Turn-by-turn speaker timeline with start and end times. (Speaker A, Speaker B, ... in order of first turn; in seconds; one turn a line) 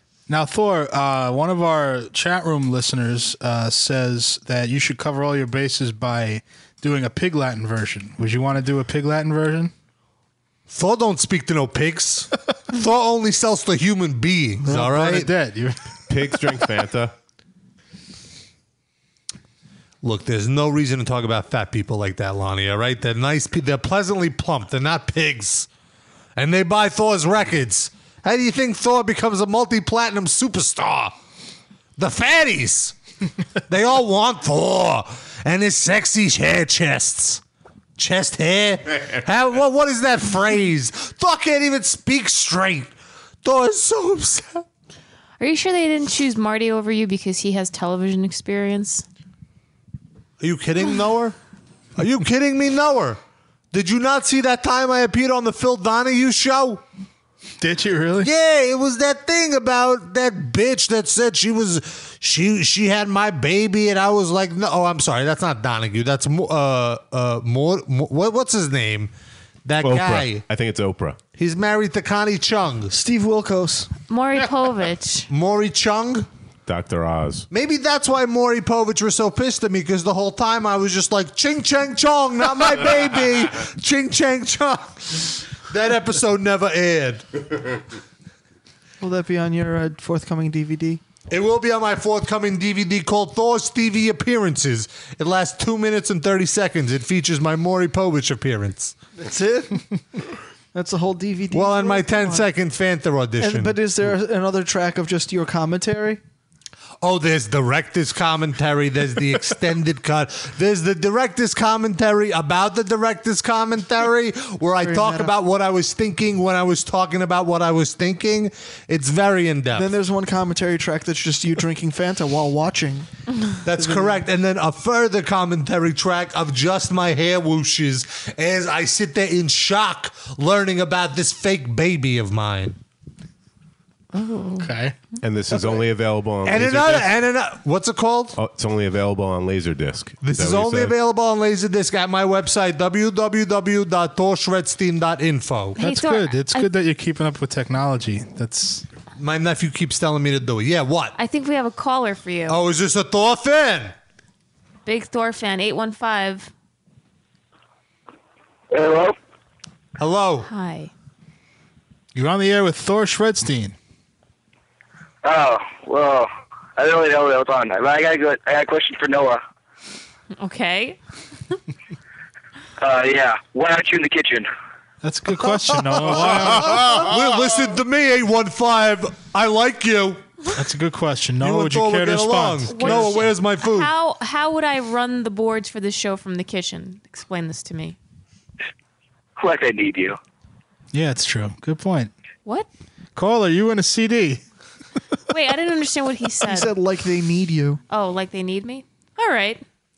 Speaker A: 0.3-9.7
Speaker B: 10.7-15.3
Speaker A: 14.6-15.8
Speaker C: 16.1-17.1
Speaker B: 20.0-25.7
Speaker B: 26.4-31.1
Speaker B: 32.0-33.0
Speaker B: 33.7-37.4
Speaker B: 38.0-42.9
Speaker B: 43.4-44.6
Speaker D: 45.4-49.1
Speaker B: 50.4-51.4
Speaker B: 52.0-53.2
Speaker B: 53.7-56.8
Speaker A: 57.6-58.3
Speaker B: 58.2-69.1
Speaker B: 69.7-70.4
Speaker C: 69.8-71.2
Speaker B: 71.4-73.0
Speaker E: 72.9-73.9
Speaker D: 74.1-75.3
Speaker B: 75.3-76.3
Speaker C: 76.7-77.5
Speaker B: 77.5-87.2
Speaker E: 89.0-91.0
Speaker B: 91.3-99.0
Speaker E: 99.2-99.8
Speaker E: 100.7-102.5
Speaker B: 101.5-103.8
Speaker E: 103.4-106.2
Speaker B: 107.0-119.9
Speaker E: 114.8-115.3
Speaker E: 119.7-123.1
Speaker B: 123.6-132.8
Speaker E: 123.8-124.2
Speaker D: 134.1-134.7
Speaker A: 134.6-135.0
Speaker C: 135.2-137.2
Speaker B: 136.4-138.4
Speaker C: 138.4-140.9
Speaker B: 140.2-145.8
Speaker D: 145.8-146.7
Speaker A: 145.8-148.8
Speaker B: 149.2-151.2
Speaker D: 151.2-152.6
Speaker B: 152.5-153.9
Speaker D: 154.9-156.5
Speaker F: 158.7-159.2
Speaker B: 160.0-160.5
Speaker D: 160.5-160.9
Speaker A: 162.2-163.8
Speaker F: 165.2-169.4
Speaker D: 170.4-171.0
Speaker F: 172.8-174.5
Speaker A: 175.0-177.1
Speaker B: 176.0-180.2
Speaker A: 180.5-183.3
Speaker B: 181.4-183.9
Speaker D: 182.7-188.0
Speaker F: 189.4-190.2
Speaker A: 190.9-192.1
Speaker A: 193.2-194.4
Speaker D: 195.3-196.7
Speaker E: 196.5-197.8
Speaker D: 197.9-199.6